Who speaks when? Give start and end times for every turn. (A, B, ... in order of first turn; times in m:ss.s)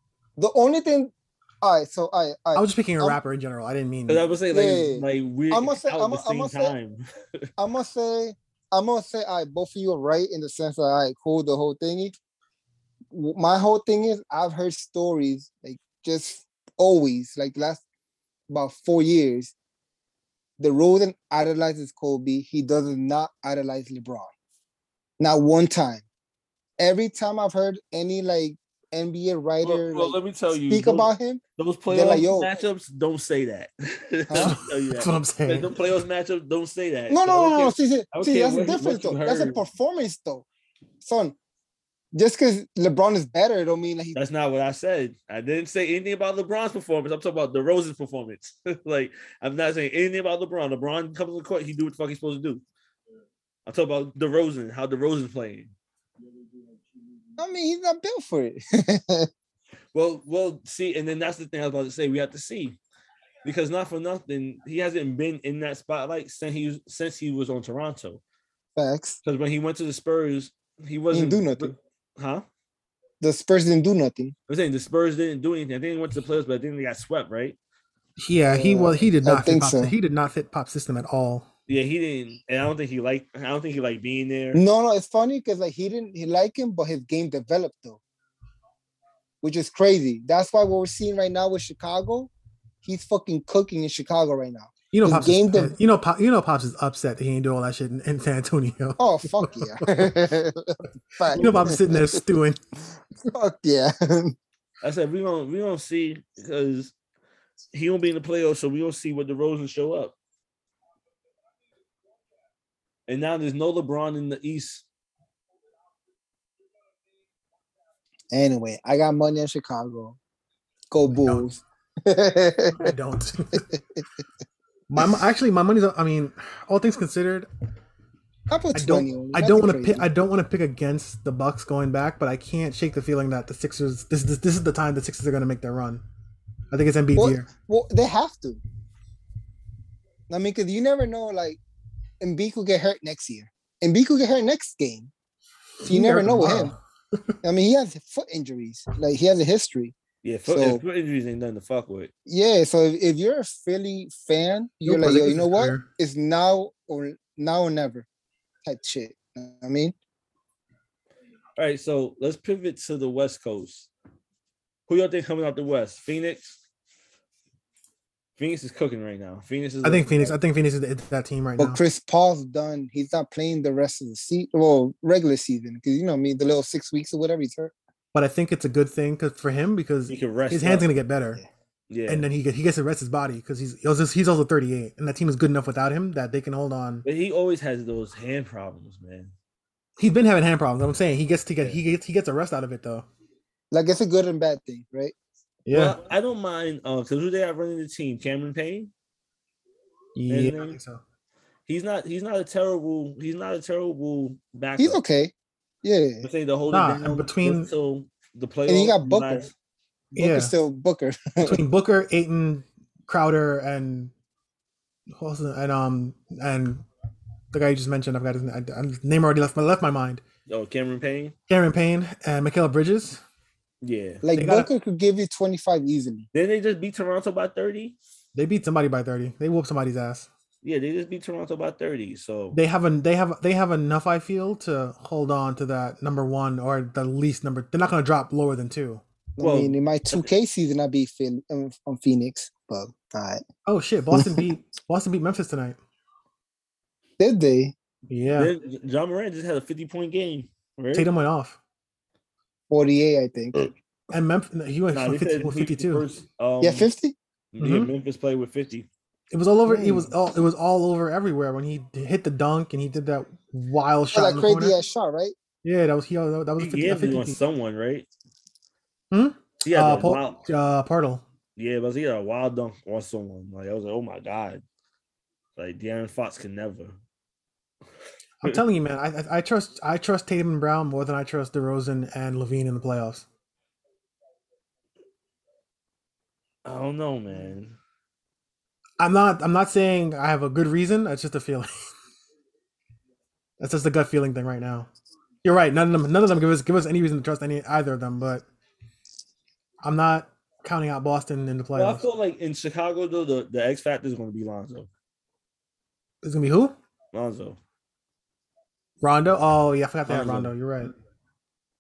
0:00.4-0:03.2 A
0:02.5-0:04.2 B
0:04.1-0:07.0 C
0:04.5-0:06.7 A
0:07.6-0:12.1 A
0:13.1-0:17.8 A
0:18.5-0:19.5 A
0:20.6-0:24.3 A
0:25.2-0:26.0 A
0:26.8-0:30.2 A
0:29.6-0:39.6 C
0:30.7-0:32.5 A
0:34.3-0:34.6 A
0:34.4-0:35.7 B
0:37.1-0:40.5 A
0:41.0-0:41.4 A
0:42.1-0:44.2 A
0:44.1-0:52.6 C
0:53.6-0:55.7 C
0:57.4-0:59.3 A
0:59.9-1:02.8 C
1:03.4-1:08.2 C
1:08.8-1:09.2 A
1:09.2-1:12.4 C
1:11.1-1:11.7 A
1:13.2-1:14.3 A
1:14.5-1:17.6 C
1:18.2-1:21.5 B
1:18.5-1:19.9 A
1:21.7-1:24.6 C
1:24.5-1:28.0 A
1:29.4-1:32.3 A
1:32.8-1:35.7 A
1:34.9-1:40.1 B
1:39.0-1:42.2 A
1:41.3-1:41.8 C
1:41.3-1:42.6 B
1:43.3-1:44.3 A
1:44.8-1:46.9 C
1:47.7-1:50.1 C
1:53.1-1:54.8 C
1:58.3-2:00.2 A
2:00.9-2:02.9 A
2:01.1-2:01.5 B
2:02.8-2:03.6 B
2:03.5-2:04.0 A
2:04.9-2:07.5 B
2:08.5-2:10.0 A
2:08.7-2:16.0 B
2:16.7-2:17.5 B
2:17.2-2:18.6 A
2:20.3-2:21.6 A
2:22.2-2:25.1 A
2:25.8-2:26.7 B
2:25.8-2:26.7 A
2:27.4-2:30.0 A
2:30.2-2:32.1 C
2:30.5-2:30.8 A
2:32.3-2:38.1 A
2:34.8-2:35.8 B
2:38.6-2:39.9 A
2:41.6-2:43.9 C
2:44.9-2:46.6 C
2:48.4-2:50.3 C
2:49.8-2:51.8 B
2:51.6-2:57.7 A
2:58.1-3:01.4 B
3:00.1-3:00.9 C
3:01.9-3:02.2 C
3:02.1-3:07.0 B
3:07.0-3:09.3 C
3:10.0-3:13.0 B
3:13.7-3:15.1 A
3:15.6-3:16.0 B
3:15.7-3:18.9 C
3:20.2-3:21.0 B
3:20.3-3:20.8 C
3:21.7-3:25.0 C
3:24.8-3:25.3 A
3:25.8-3:26.3 A
3:26.2-3:29.5 C
3:26.7-3:27.7 B
3:28.7-3:29.5 A
3:30.1-3:31.6 A
3:30.2-3:30.5 B
3:31.4-3:34.1 B
3:35.1-3:36.8 B
3:37.5-3:40.2 B
3:40.5-3:41.3 C
3:41.5-3:43.2 B
3:43.8-3:44.2 C
3:44.2-3:46.3 A
3:44.3-3:44.7 B
3:46.3-3:48.0 C
3:48.3-3:50.3 B
3:50.6-3:52.6 C
3:52.5-3:59.0 B
3:59.4-4:03.4 A
3:59.4-4:00.3 C
4:03.6-4:05.8 B
4:04.1-4:04.4 A
4:07.2-4:07.7 A
4:08.1-4:08.5 B
4:08.4-4:11.1 C
4:10.9-4:11.6 B
4:12.7-4:13.6 A
4:14.1-4:16.0 B
4:14.9-4:16.9 C
4:16.6-4:17.1 A
4:17.5-4:18.9 C
4:17.6-4:17.9 B
4:19.3-4:24.8 B
4:24.1-4:25.3 A
4:25.6-4:27.4 B
4:26.6-4:28.1 C
4:29.1-4:31.2 B
4:29.6-4:30.4 C
4:31.6-4:34.6 C
4:35.6-4:37.0 C
4:38.4-4:43.2 B
4:46.6-4:47.8 C
4:49.0-4:51.7 B
4:53.6-4:54.9 B
4:55.4-4:58.4 B
4:59.8-5:02.0 B
5:01.7-5:04.9 C
5:06.2-5:06.7 B
5:07.1-5:07.6 C
5:09.0-5:10.9 B
5:10.1-5:10.5 C